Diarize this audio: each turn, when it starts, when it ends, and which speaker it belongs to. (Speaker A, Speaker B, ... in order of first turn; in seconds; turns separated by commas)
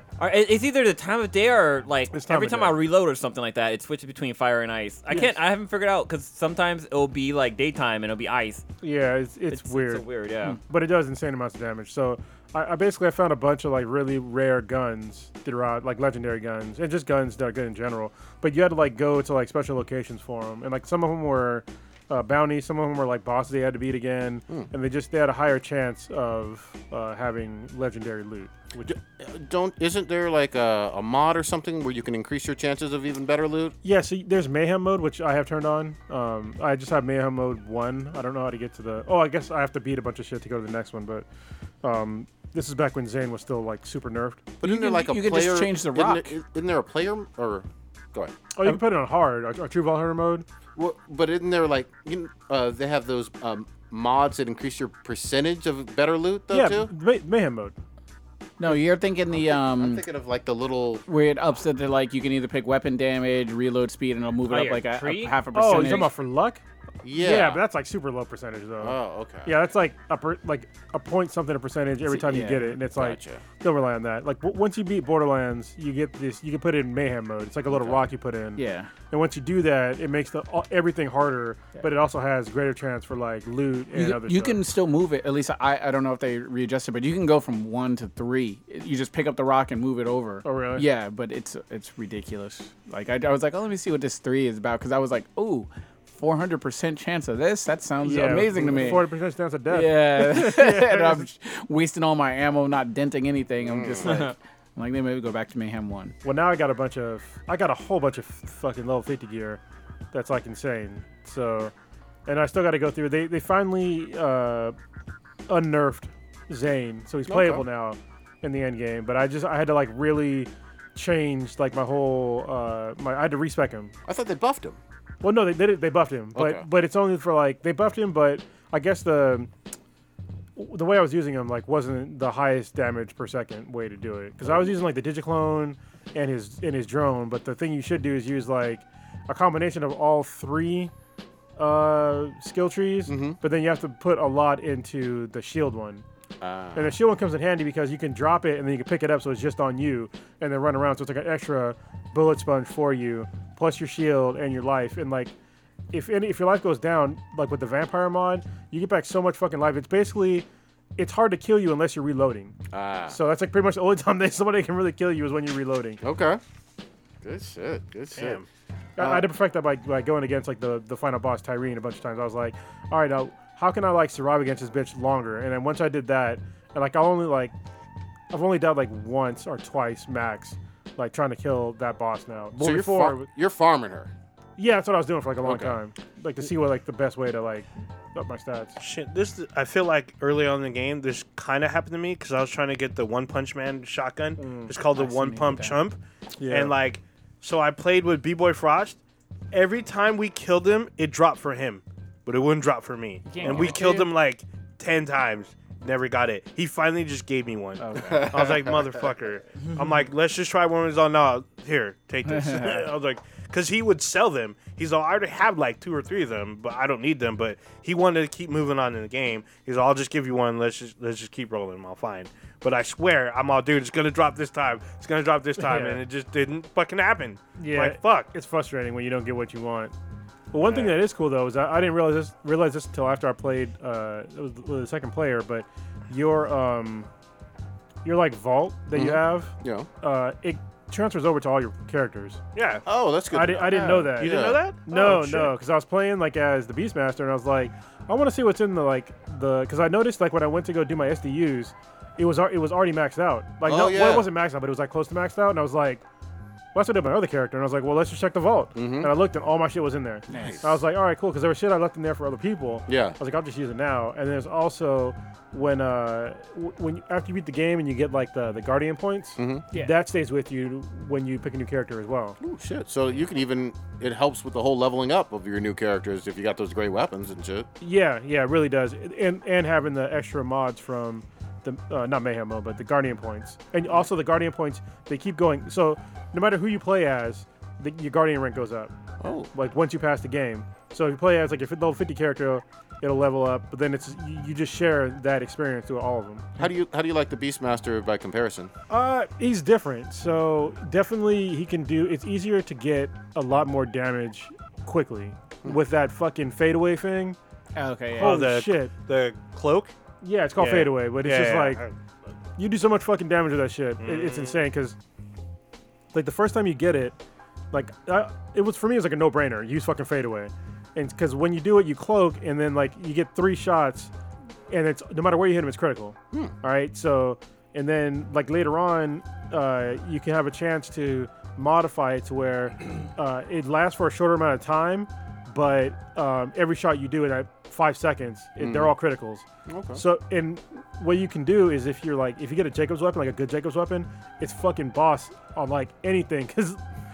Speaker A: 0.2-8.6, Speaker B: 2.1-2.8, Speaker B: 5.1-5.3, Speaker B: 8.8-10.0, Speaker A: 9.5-10.6, Speaker B: 10.6-28.9, Speaker C: 28.8-33.8, Speaker B: 33.8-41.3, Speaker B: 41.8-44.6, Speaker C: 44.6-48.4, Speaker D: 44.6-46.4, Speaker B: 48.5-50.5, Speaker C: 50.8-56.9, Speaker B: 56.5-57.7, Speaker D: 58.6-60.0, Speaker C: 59.3-61.0, Speaker D: 61.1-66.1, Speaker A: 64.5-66.1, Speaker B: 65.5-66.6, Speaker C: 67.0-67.6, Speaker B: 67.1-84.6, Speaker C: 68.8-69.6, Speaker D: 72.1-72.8, Speaker C: 72.9-73.5, Speaker C: 77.7-78.1, Speaker D: 78.6-78.9, Speaker D: 83.9-99.1, Speaker B: 90.4-90.9, Speaker B: 98.0-101.3, Speaker D: 99.7-106.2, Speaker C: 103.6-104.2, Speaker A: 104.1-104.3, Speaker B: 106.2-109.6, Speaker B: 110.1-111.7, Speaker B: 112.3-114.8, Speaker B: 115.5-123.9, Speaker C: 117.3-117.7, Speaker C: 124.1-124.8, Speaker B: 125.2-129.5, Speaker C: 126.3-126.7, Speaker B: 130.6-140.9, Speaker B: 141.6-146.1, Speaker C: 143.1-143.4, Speaker C: 146.4-147.0, Speaker B: 146.8-155.3, Speaker B: 155.9-160.5, Speaker B: 161.0-162.6, Speaker C: 162.7-163.2, Speaker B: 163.1-166.0, Speaker C: 166.0-166.4, Speaker C: 167.2-168.4, Speaker E: 168.2-168.5, Speaker B: 169.0-177.5, Speaker C: 169.0-169.3, Speaker B: 178.3-183.3, Speaker C: 182.6-184.1, Speaker B: 184.6-188.8, Speaker C: 185.5-185.7, Speaker E: 188.8-199.0, Speaker B: 194.4-194.7, Speaker D: 194.9-195.8, Speaker B: 196.4-196.7, Speaker E: 199.5-228.3, Speaker D: 203.3-204.1, Speaker C: 203.4-203.8, Speaker D: 207.8-208.4, Speaker C: 208.0-208.8, Speaker D: 212.3-212.9, Speaker B: 225.6-226.0, Speaker B: 227.6-229.9, Speaker B: 230.5-237.1, Speaker E: 230.6-230.9, Speaker B: 238.0-242.4, Speaker C: 238.9-239.9, Speaker E: 242.6-242.8, Speaker C: 242.9-245.5, Speaker B: 243.3-256.0, Speaker E: 244.2-244.9, Speaker C: 253.6-254.3, Speaker B: 256.7-272.4, Speaker C: 258.8-259.2, Speaker D: 260.3-260.6, Speaker C: 260.3-260.8, Speaker C: 262.9-263.2, Speaker C: 269.4-269.7, Speaker C: 272.4-277.7, Speaker B: 277.8-288.9, Speaker C: 289.2-289.5, Speaker B: 289.5-296.6, Speaker C: 296.6-298.7, Speaker B: 298.9-307.4, Speaker D: 307.8-308.4, Speaker B: 308.1-308.9, Speaker E: 308.2-309.9, Speaker B: 310.2-311.8, Speaker E: 310.6-311.9, Speaker B: 312.6-315.0, Speaker E: 314.0-314.6, Speaker B: 316.1-317.2, Speaker B: 317.7-324.1, Speaker B: 324.7-346.8, Speaker C: 338.6-338.9, Speaker C: 339.7-340.0